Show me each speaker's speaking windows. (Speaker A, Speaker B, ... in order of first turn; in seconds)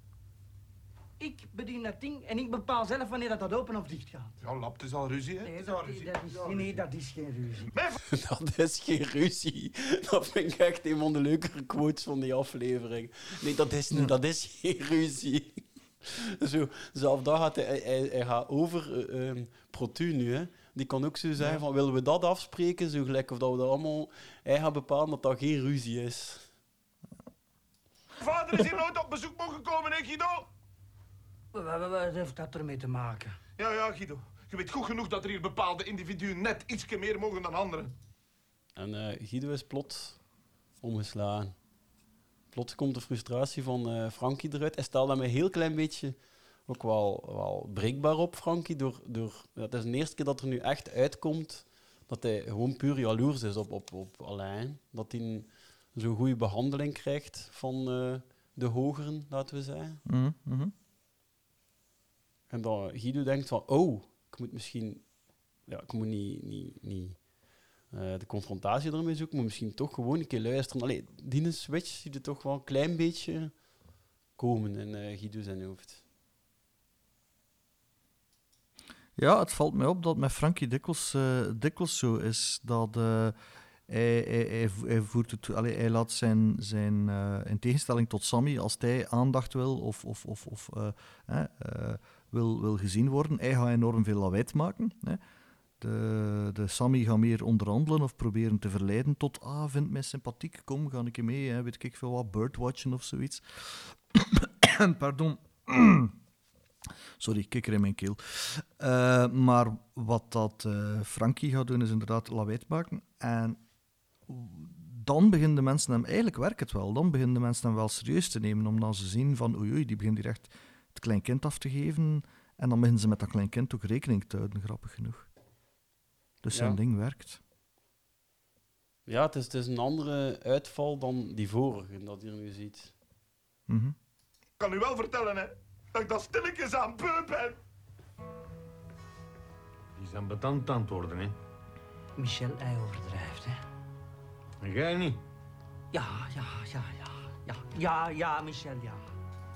Speaker A: 1.2-4.3, 5.4-7.7, 31.5-33.4, 142.2-143.6, 145.9-149.0
Speaker B: 4.4-6.8, 28.2-30.5, 33.6-37.9, 134.6-137.6
Speaker C: 8.1-26.5, 38.8-40.2, 40.8-41.5, 42.5-46.1, 46.7-60.0, 62.5-65.1, 65.7-67.2, 67.9-73.6, 74.3-76.0, 126.5-126.8, 129.1-132.9
Speaker D: 60.0-60.7, 79.2-83.3, 83.9-95.2, 95.8-106.1, 107.2-113.6, 114.3-125.3, 126.4-127.4, 133.7-133.9
Speaker E: 139.9-141.3, 144.6-145.2